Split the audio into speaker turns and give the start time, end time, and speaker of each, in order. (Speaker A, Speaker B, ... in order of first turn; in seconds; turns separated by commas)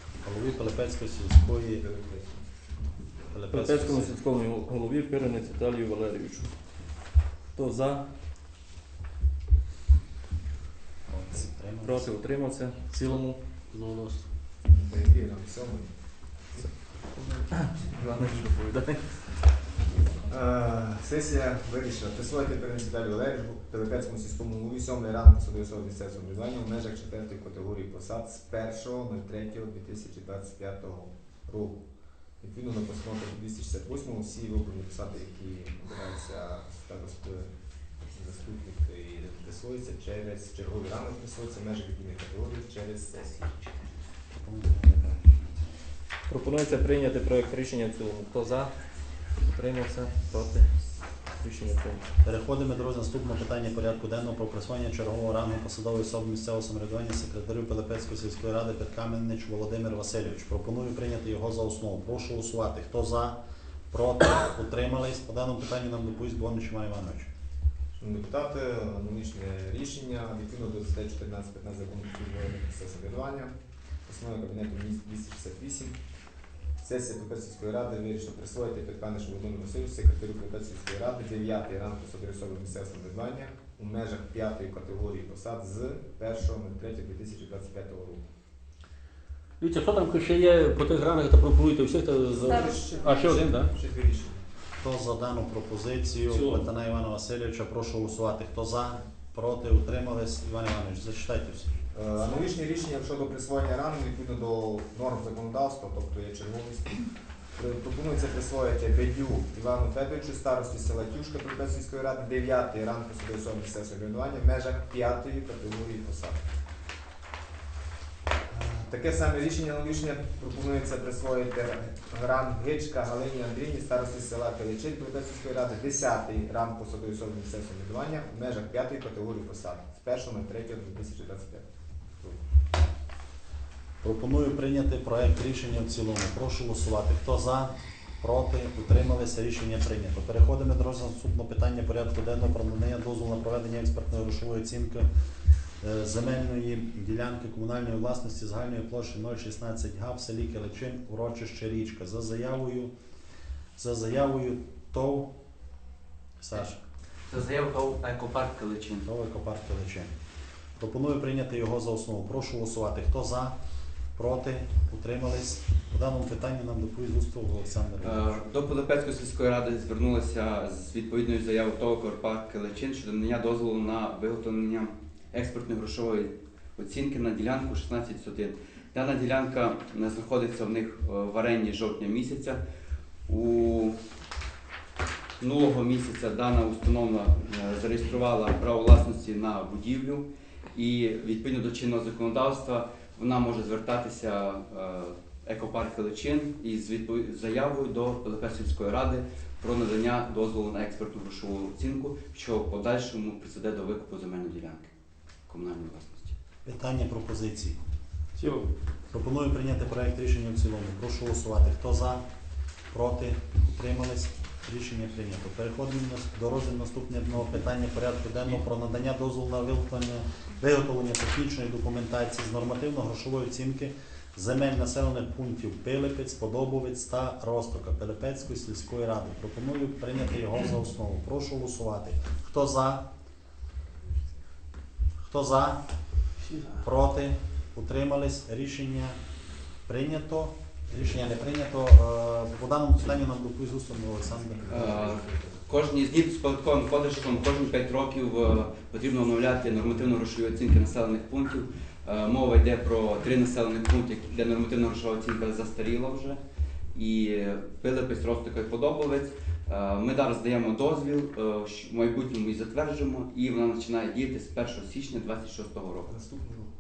Speaker A: 0.2-1.9, Speaker B: 1.8-2.5, Speaker A: 3.3-4.2, Speaker C: 3.5-6.5, Speaker C: 7.5-8.1, Speaker A: 11.1-12.1, Speaker C: 11.8-14.2, Speaker B: 14.6-15.9, Speaker C: 16.6-19.3, Speaker B: 20.3-31.8, Speaker B: 32.4-37.5, Speaker B: 38.1-43.5, Speaker A: 44.3-45.7, Speaker C: 46.3-48.7, Speaker C: 49.4-50.7, Speaker C: 51.4-52.0, Speaker A: 52.2-63.4, Speaker A: 63.9-67.3, Speaker B: 68.0-73.5, Speaker B: 74.1-76.0, Speaker B: 76.8-88.2, Speaker D: 89.6-92.3, Speaker B: 92.2-94.4, Speaker D: 93.0-93.5, Speaker A: 94.8-101.7, Speaker D: 96.3-96.6, Speaker B: 101.9-116.4, Speaker B: 118.5-132.4, Speaker A: 134.0-145.1, Speaker A: 145.8-152.9, Speaker A: 153.8-155.3, Speaker A: 156.4-156.8, Speaker E: 157.3-159.1, Speaker A: 159.0-160.2, Speaker A: 160.8-163.6, Speaker A: 164.2-168.4, Speaker E: 168.0-182.6, Speaker E: 183.3-184.0, Speaker E: 185.4-204.9, Speaker E: 205.5-206.3, Speaker A: 206.7-207.8, Speaker C: 208.4-208.7, Speaker A: 209.1-212.2, Speaker A: 212.9-233.1, Speaker A: 235.2-235.8, Speaker A: 236.8-239.2, Speaker A: 239.9-245.6, Speaker E: 244.7-256.4, Speaker E: 256.9-266.2, Speaker B: 266.1-266.7